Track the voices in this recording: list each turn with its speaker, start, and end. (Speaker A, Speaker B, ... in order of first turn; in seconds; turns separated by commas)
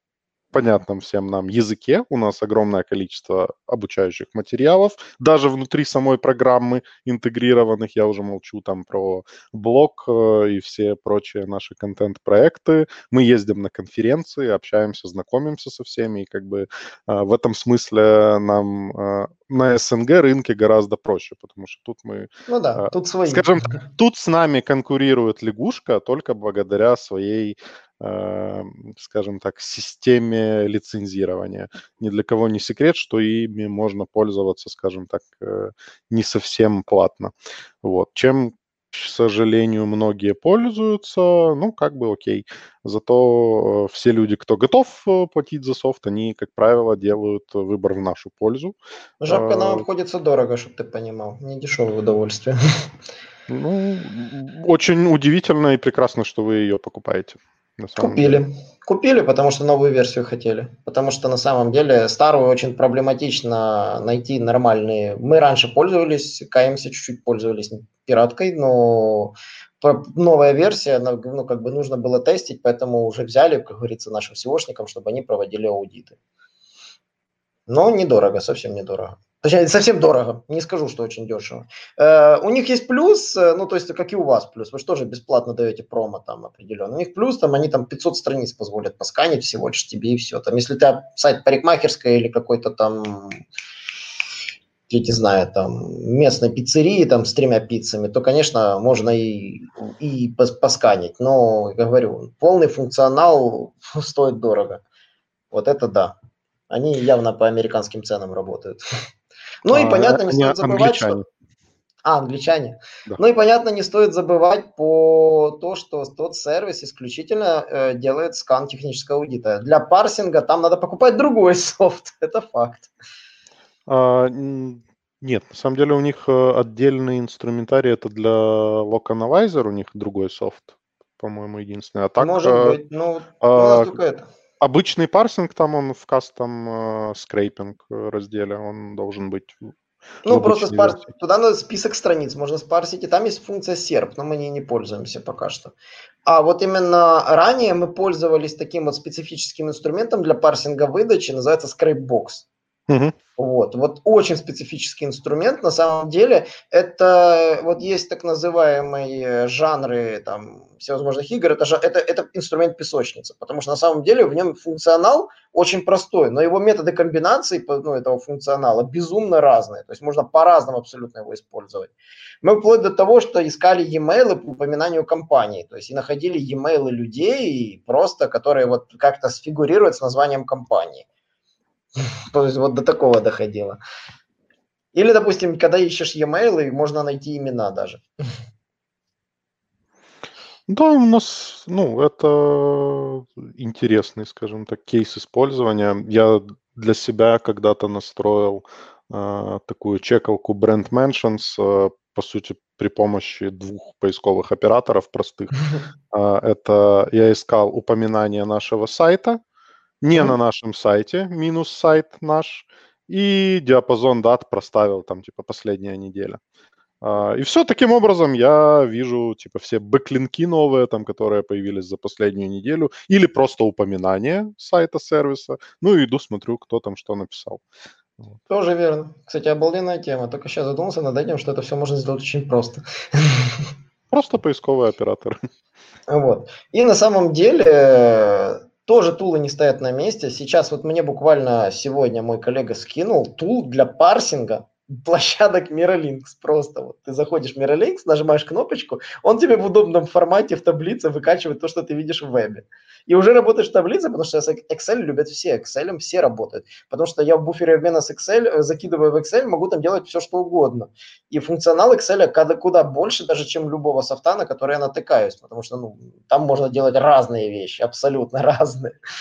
Speaker A: 0.5-48.8, Speaker B: 22.5-23.5, Speaker B: 49.2-52.6, Speaker A: 49.3-49.8, Speaker A: 53.5-58.4, Speaker B: 58.0-76.2, Speaker B: 77.7-93.4, Speaker B: 94.9-104.8, Speaker B: 105.5-106.1, Speaker B: 106.7-108.8, Speaker B: 109.6-111.2, Speaker A: 109.7-111.2, Speaker B: 112.0-122.9, Speaker A: 123.9-132.8, Speaker B: 132.2-134.2, Speaker A: 133.4-134.0, Speaker A: 134.6-139.7, Speaker B: 140.2-145.7, Speaker A: 140.2-141.0, Speaker B: 146.2-152.4, Speaker A: 152.9-153.2, Speaker B: 153.4-181.1, Speaker B: 182.0-183.8, Speaker B: 184.9-188.0, Speaker A: 190.7-205.6, Speaker A: 206.1-209.4, Speaker A: 210.0-216.4, Speaker A: 217.0-227.6, Speaker B: 228.5-233.7, Speaker A: 234.1-235.4, Speaker B: 236.1-269.0